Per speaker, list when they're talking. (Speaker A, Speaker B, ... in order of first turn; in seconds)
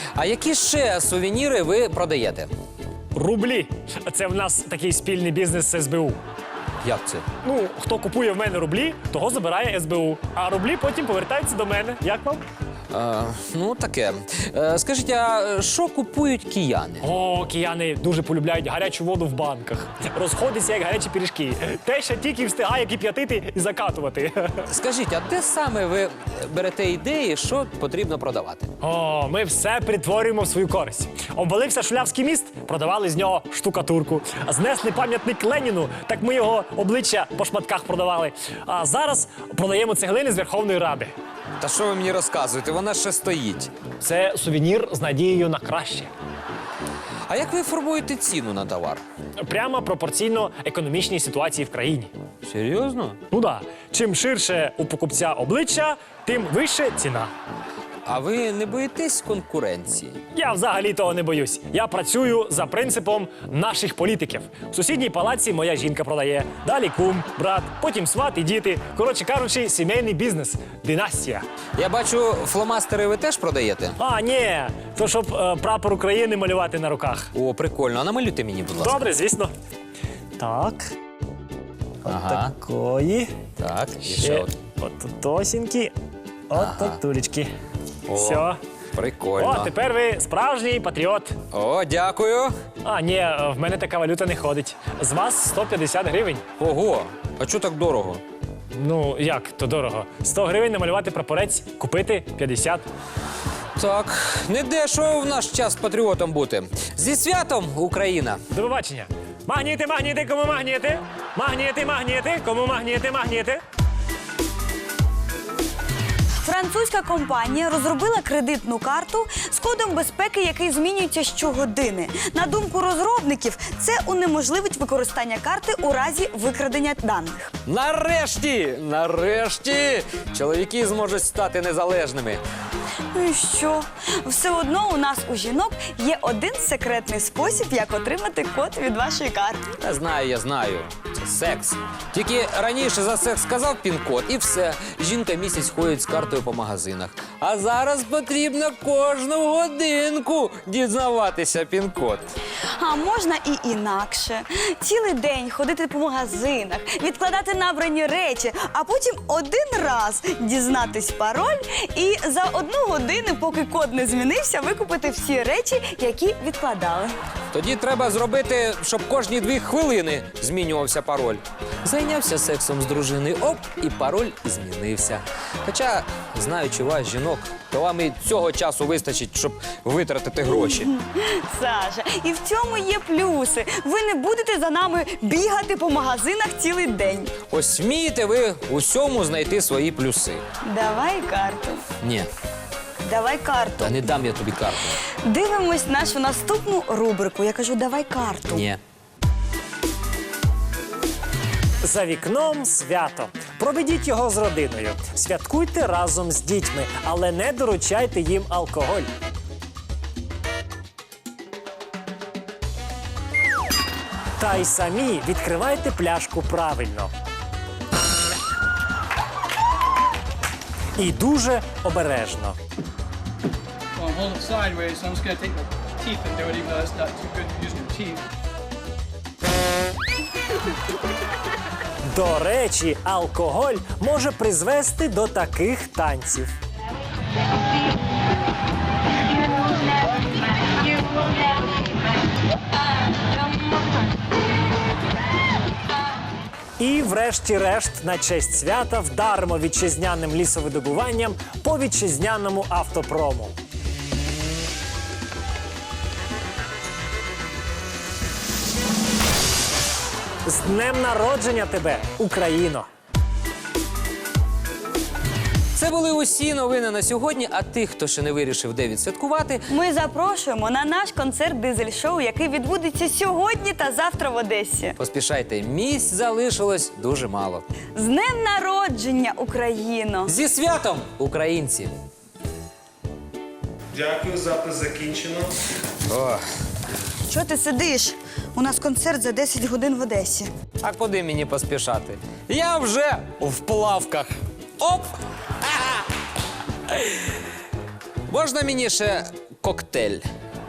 Speaker A: 0.2-2.5, 6.8-7.3, 12.9-17.1, 24.7-28.7, 41.6-43.7, 47.3-49.0, 52.5-53.2, 58.0-60.2, 71.8-74.0, 77.3-79.1, 82.0-82.5, 83.6-84.5, 86.5-87.0, 88.1-89.7, 91.5-92.5, 96.6-98.2, 103.8-108.4, 127.7-132.4, 139.8-152.3, 167.5-180.9, 187.5-190.4, 192.0-192.3, 193.8-195.0, 198.5-198.8, 265.8-269.7, 275.0-277.7, 280.3-281.9, 283.9-285.5, 286.1-286.4, 290.8-295.1, 295.6-296.0, 298.3-300.3
Speaker B: 3.1-6.2, 7.4-12.4, 17.0-24.6, 28.8-41.1, 44.0-46.1, 49.4-52.1, 53.3-57.3, 60.3-71.5, 74.0-77.3, 78.8-79.5, 80.4-80.9, 82.0-83.3, 84.2-85.9, 86.5-87.5, 88.1-88.6, 89.4-91.4, 92.8-96.4, 98.8-102.8, 108.5-113.6, 201.8-209.1, 214.4-217.1, 221.0-222.6, 232.1-236.5, 246.8-253.5, 260.5-262.9
Speaker C: 116.4-127.5, 133.1-139.7, 152.8-167.1, 180.5-187.3, 190.6-191.8, 193.0-194.0, 195.2-198.7, 269.7-275.0, 278.0-280.3, 287.3-290.5